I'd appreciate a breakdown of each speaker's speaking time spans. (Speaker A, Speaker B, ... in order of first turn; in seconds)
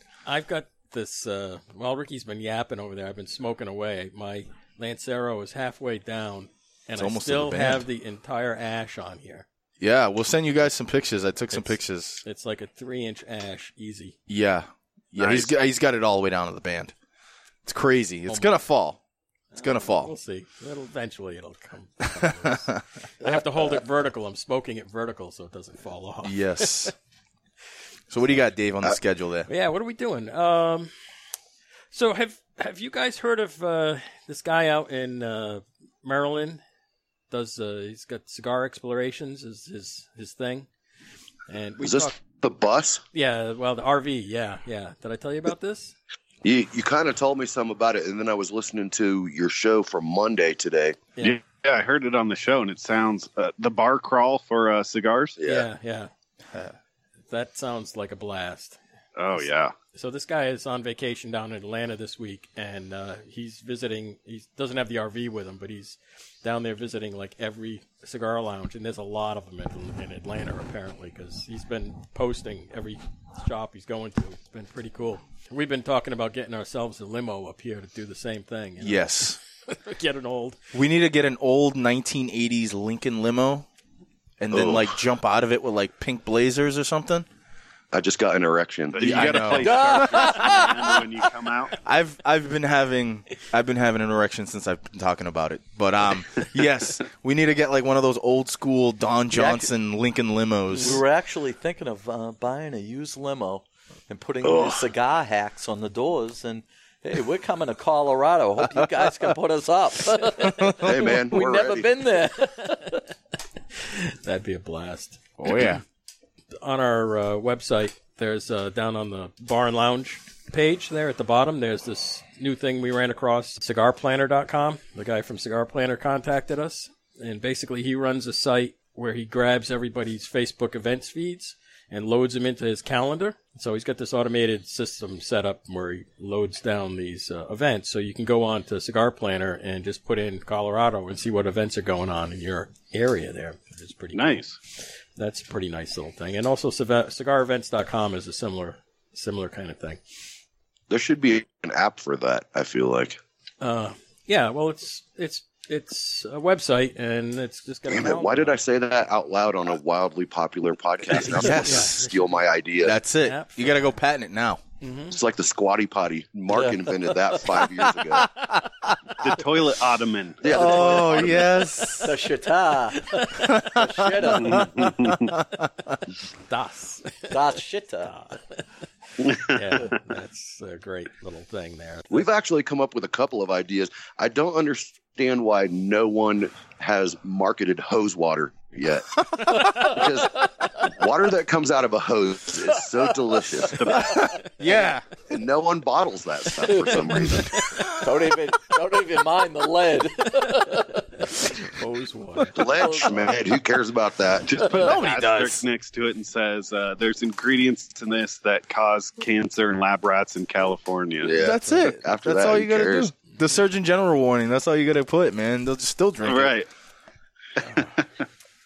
Speaker A: 0.3-9.4, 11.5-14.2, 18.3-18.6, 19.5-26.9, 29.5-30.9, 31.9-36.6, 37.3-40.7, 41.5-42.1, 43.1-46.0, 55.5-56.1, 57.3-58.8, 59.9-79.1, 79.7-80.6, 113.8-115.8, 116.6-144.4, 145.2-150.0, 153.6-158.6, 161.2-162.5, 163.2-163.8, 164.8-165.2, 173.0-173.7, 176.5-177.5, 178.1-178.6, 179.2-182.1, 200.5-202.6, 217.6-217.9
Speaker B: 7.0-7.9, 9.8-12.2, 14.3-16.9, 17.7-19.0, 19.6-20.1, 22.2-22.8, 26.2-26.9, 28.1-29.5, 78.8-79.4, 80.7-83.7, 84.4-87.3, 89.0-90.7, 91.8-101.0, 110.4-110.9, 115.4-115.8, 161.2-162.0, 162.8-164.6, 168.2-169.4, 170.5-172.1, 173.3-176.0, 189.3-189.7, 194.0-195.0, 204.7-205.6, 211.4-216.5
Speaker C: 41.8-43.0, 46.4-51.0, 55.4-55.7, 84.5-84.9, 87.9-89.4, 104.4-104.8, 110.8-111.9, 150.9-153.2, 157.9-163.0, 165.1-168.3, 170.4-171.5, 182.1-193.8, 195.3-197.6, 202.6-204.8, 211.2-213.1
Speaker D: 51.2-55.4, 59.2-59.8, 88.9-91.8, 144.1-144.6, 169.2-170.8, 174.4-175.3, 179.3-180.0, 193.7-194.2, 204.5-211.3, 216.2-216.7
Speaker E: 89.6-91.0, 99.3-99.7, 100.8-113.0, 166.5-166.9, 170.5-171.2, 172.0-174.8, 177.3-178.2, 196.8-201.1, 202.6-203.4